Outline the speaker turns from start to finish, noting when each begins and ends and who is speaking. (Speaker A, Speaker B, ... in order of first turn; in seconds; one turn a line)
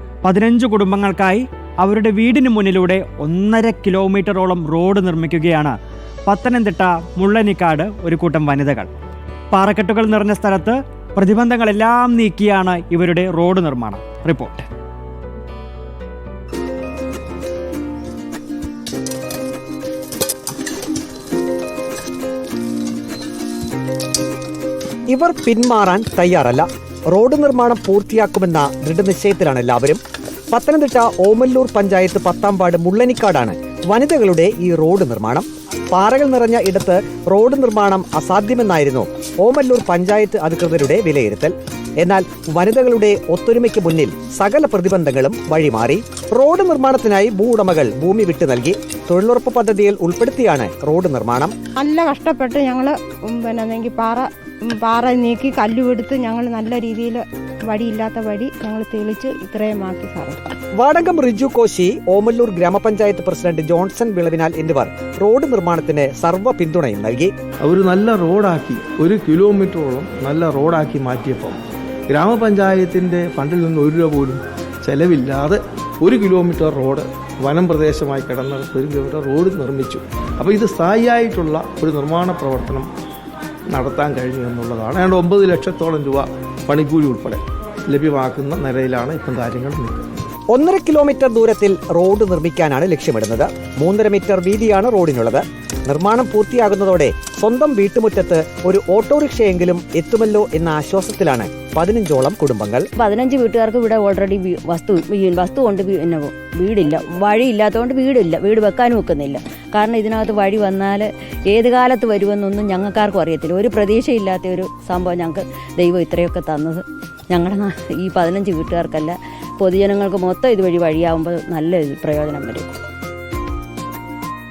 Speaker A: 0.2-8.9
Speaker A: 9.5-14.7
Speaker B: 25.1-30.0
Speaker B: 30.5-51.5
Speaker C: 51.8-60.6
Speaker B: 60.8-67.3
Speaker D: 67.6-82.9
Speaker D: 83.7-90.1
Speaker B: 90.5-102.9
Speaker E: 103.0-122.7